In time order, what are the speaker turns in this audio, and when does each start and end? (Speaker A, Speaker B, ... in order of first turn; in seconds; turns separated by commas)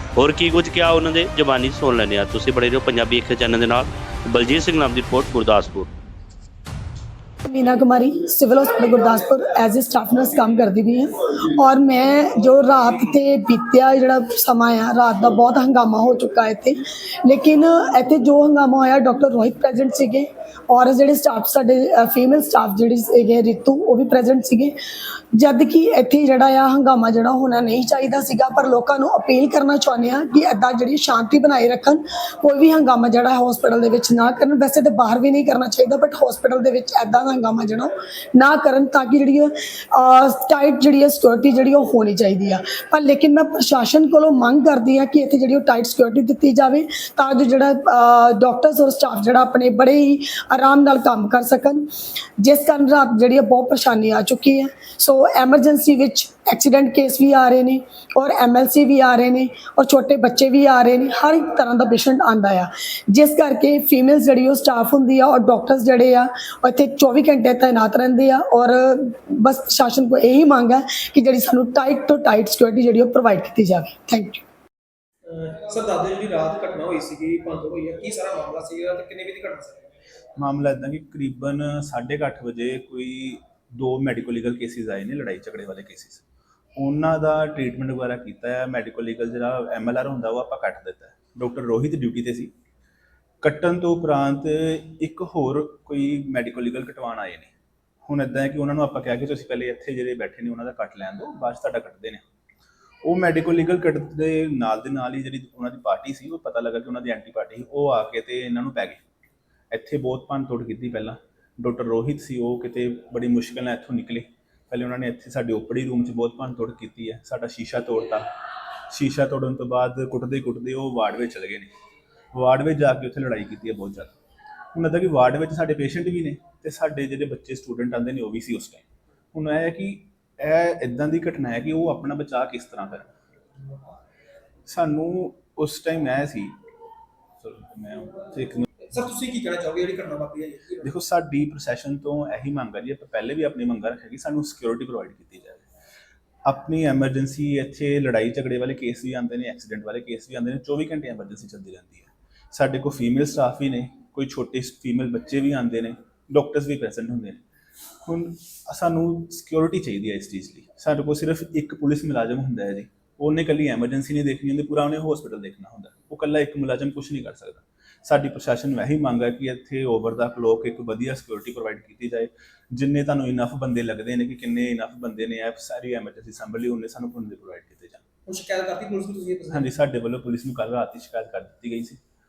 Speaker A: 0.2-5.9, Speaker B: 7.4-24.8, Speaker B: 25.3-51.9, Speaker B: 52.4-74.4, Speaker C: 75.2-79.8, Speaker D: 80.4-86.2, Speaker D: 86.8-92.5, Speaker D: 93.4-97.5, Speaker D: 98.1-102.2, Speaker D: 103.0-109.0, Speaker D: 109.7-118.2, Speaker D: 118.9-121.7, Speaker D: 122.3-124.1, Speaker D: 124.7-133.1, Speaker D: 134.7-136.6, Speaker D: 137.4-138.7, Speaker C: 138.9-140.9, Speaker D: 140.8-145.6, Speaker D: 146.5-157.4, Speaker D: 158.0-178.0, Speaker C: 178.2-179.7, Speaker D: 179.5-182.0